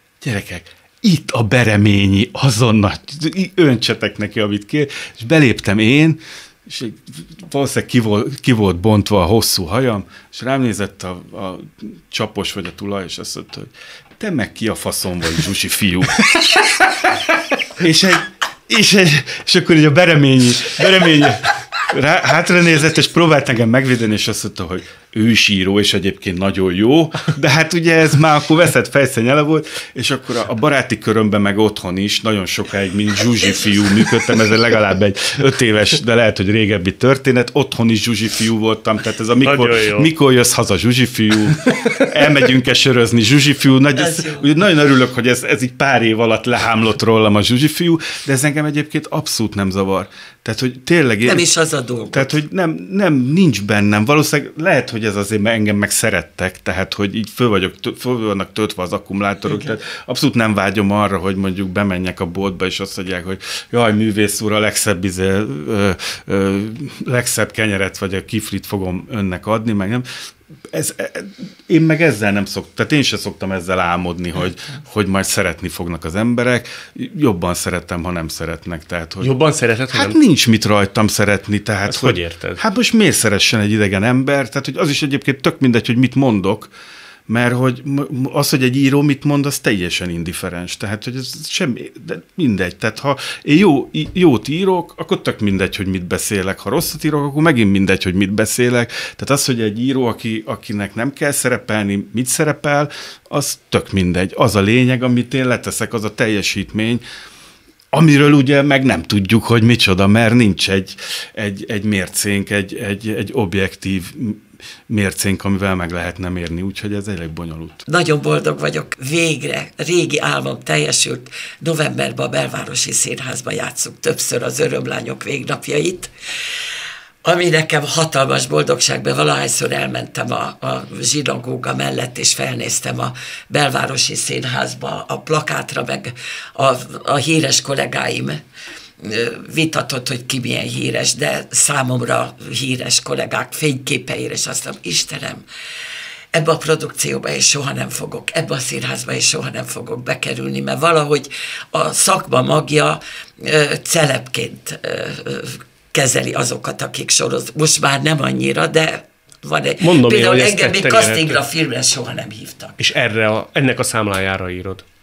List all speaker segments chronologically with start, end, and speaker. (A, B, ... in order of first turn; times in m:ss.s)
0:00.2-0:51.5 A
0:39.4-0:40.1 B
0:44.0-0:44.5 C
0:51.2-0:52.4 C
0:52.1-1:10.1 A
1:10.7-1:19.3 A
1:19.2-1:20.2 B
1:19.9-1:26.7 A
1:21.9-1:22.6 B
1:27.3-1:47.0 A
1:47.9-1:57.8 A
1:57.9-2:06.1 C
2:07.2-2:18.4 C
2:19.0-2:25.4 C
2:26.3-2:42.8 C
2:39.8-2:41.4 B
2:42.8-2:44.8 B